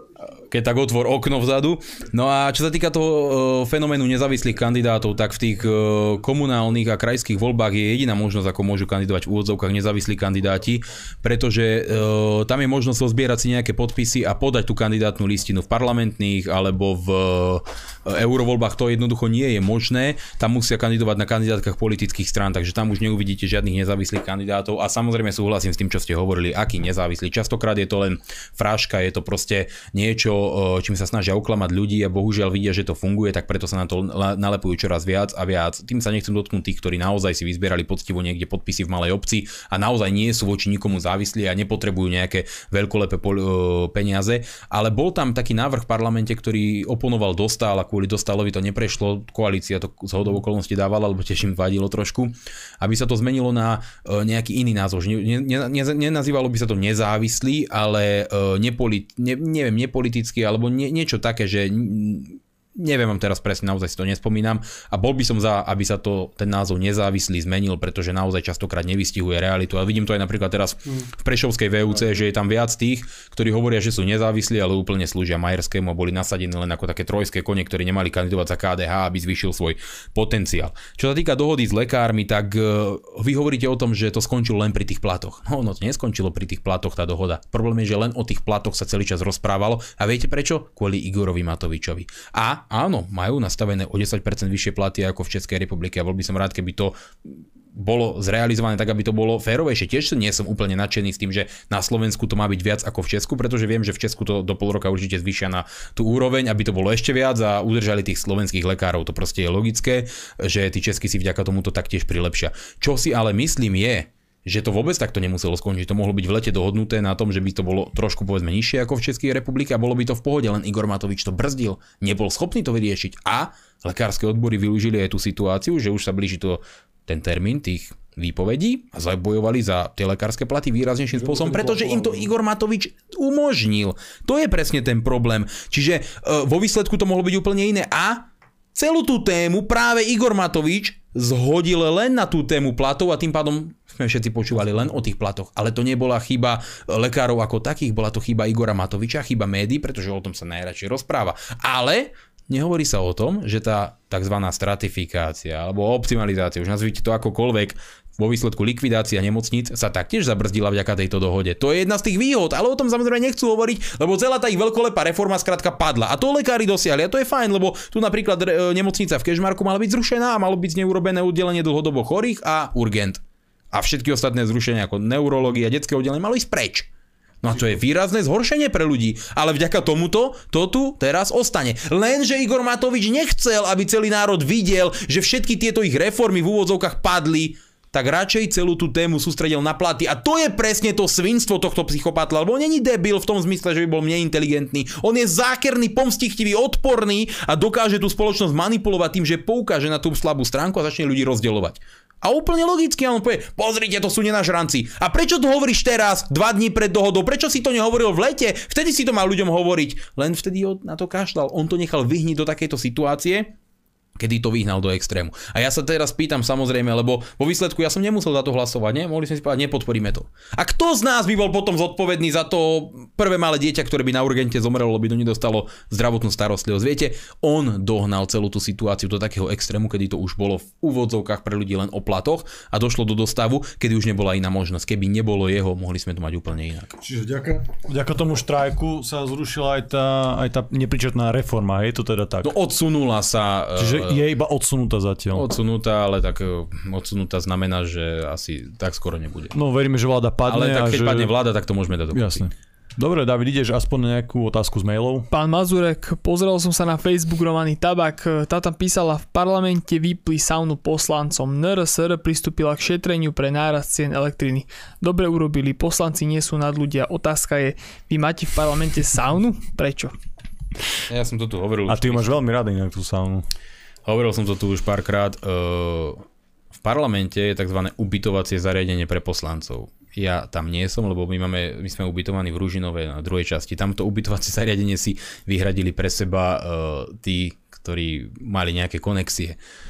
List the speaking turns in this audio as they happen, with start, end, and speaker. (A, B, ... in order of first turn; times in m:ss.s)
0:00.4-2:56.9 A
2:11.1-2:12.3 B
2:57.4-3:33.5 A
3:34.2-3:57.0 A
3:57.0-4:02.5 B
4:02.4-4:04.2 A
4:03.8-4:05.4 B
4:05.3-4:09.5 A
4:09.5-4:11.3 B
4:10.4-4:12.4 A
4:12.1-4:15.3 B
4:15.3-4:30.1 C
4:31.1-4:32.4 A
4:31.9-4:33.4 B
4:34.0-4:36.2 A
4:36.8-4:49.6 A